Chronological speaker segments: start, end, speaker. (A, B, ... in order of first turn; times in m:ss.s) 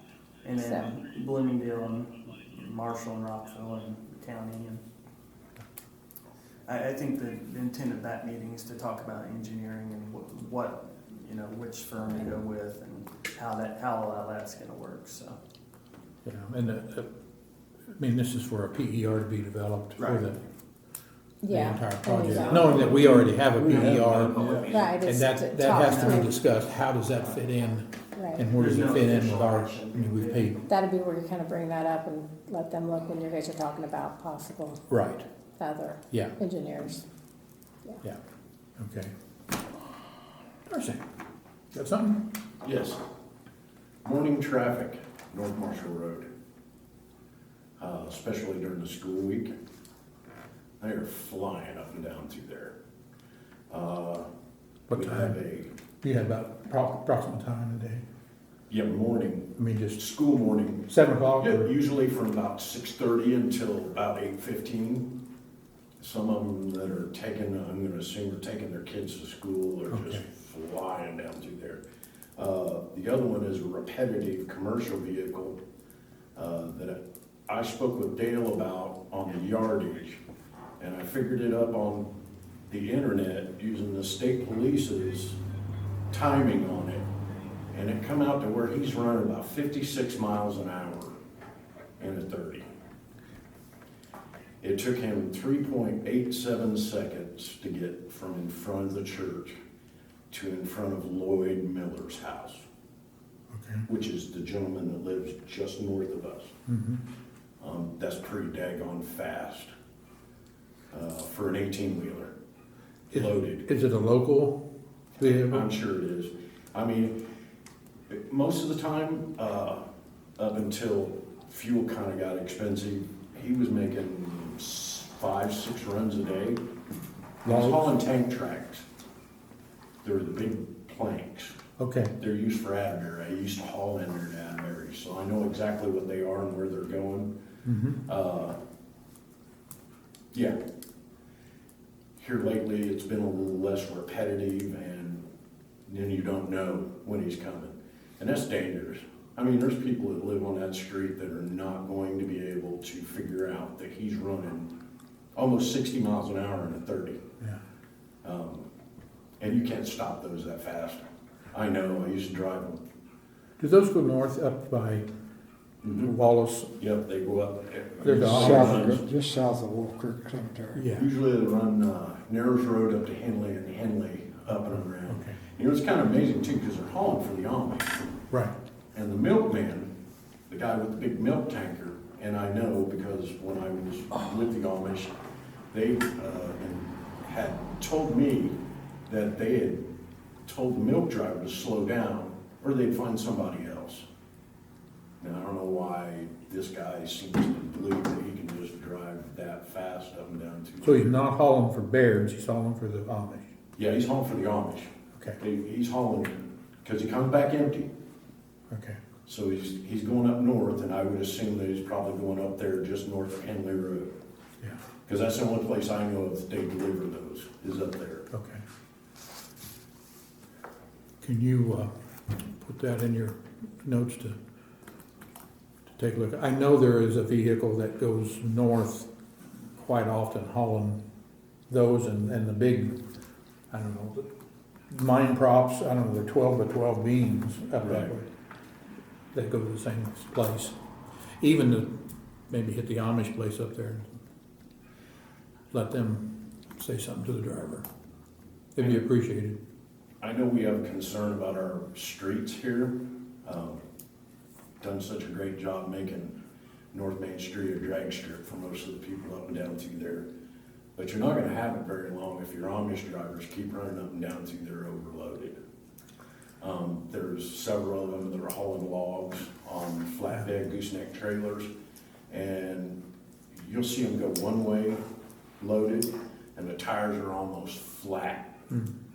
0:00.4-0:04.8 A
0:00.6-0:00.8 B
0:06.6-0:15.4 A
0:16.2-0:17.1 C
0:17.9-0:20.4 C
0:20.0-0:20.2 A
0:21.4-0:22.9 B
0:21.5-0:30.6 C
0:22.2-0:25.0 A
0:23.7-0:24.0 D
0:24.6-0:26.4 B
0:25.6-0:26.3 A
0:28.1-0:28.4 B
0:28.4-0:30.6 A
0:30.7-0:34.8 B
0:34.9-0:35.2 C
0:35.6-0:37.0 B
0:38.8-0:39.1 C
0:40.7-0:41.0 C
0:41.7-0:42.3 C
0:42.6-0:43.0 E
0:44.0-0:46.3 E
0:47.8-0:49.5 E
0:50.8-0:52.8 E
0:53.7-0:54.3 E
0:54.9-0:55.4 C
0:54.9-0:55.7 E
0:56.0-0:58.0 C
0:58.7-1:05.1 E
0:59.6-1:00.0 C
1:00.9-1:01.7 C
1:06.0-1:11.8 E
1:09.9-1:10.2 C
1:12.4-1:15.6 E
1:16.4-1:20.2 E
1:20.8-1:22.0 E
1:22.7-1:25.4 E
1:26.1-1:27.1 E
1:27.7-1:31.2 E
1:32.0-1:32.7 E
1:34.6-1:39.6 E
1:40.3-1:42.6 E
1:43.5-1:43.8 C
1:43.9-1:46.5 E
1:46.7-1:47.0 C
1:47.6-1:49.7 E
1:50.9-1:52.3 E
1:53.1-1:53.6 E
1:53.1-1:54.6 C
1:55.2-1:55.6 C
1:55.2-1:57.2 E
1:58.1-1:59.8 E
2:00.4-2:06.6 E
2:07.4-2:08.8 E
2:07.5-2:07.8 C
2:10.0-2:11.5 E
2:11.8-2:12.1 C
2:12.2-2:17.3 E
2:17.6-2:18.0 C
2:18.0-2:18.6 E
2:22.2-2:25.2 E
2:25.9-2:34.7 E
2:35.3-2:37.2 E
2:38.2-2:38.7 E
2:39.4-2:42.8 E
2:43.6-2:45.1 C
2:45.8-2:46.1 E
2:46.0-2:46.7 C
2:46.8-2:49.0 E
2:48.0-2:49.0 C
2:48.0-2:50.9 D
2:50.7-2:51.0 C
2:50.9-2:58.0 E
2:55.0-2:55.4 C
2:58.9-2:59.9 E
3:00.5-3:05.1 E
3:05.7-3:09.9 E
3:10.4-3:14.0 E
3:15.2-3:21.1 E
3:20.8-3:23.5 C
3:23.8-3:27.9 E
3:28.7-3:29.0 C
3:29.2-3:34.1 E
3:35.0-3:38.2 E
3:38.3-3:38.6 C
3:41.2-3:44.4 C
3:46.0-3:49.1 C
3:49.8-3:51.0 C
3:51.7-3:53.0 C
3:53.7-3:54.2 C
3:54.9-3:58.3 C
3:57.8-3:58.1 E
3:59.3-4:00.7 C
4:01.4-4:01.9 C
4:02.5-4:04.1 C
4:05.7-4:07.8 C
4:08.7-4:09.6 C
4:10.2-4:13.8 E
4:14.8-4:16.3 E
4:16.9-4:20.2 E
4:21.0-4:25.6 E
4:26.6-4:31.7 E
4:32.3-4:33.0 E
4:33.5-4:35.0 E
4:35.6-4:38.6 E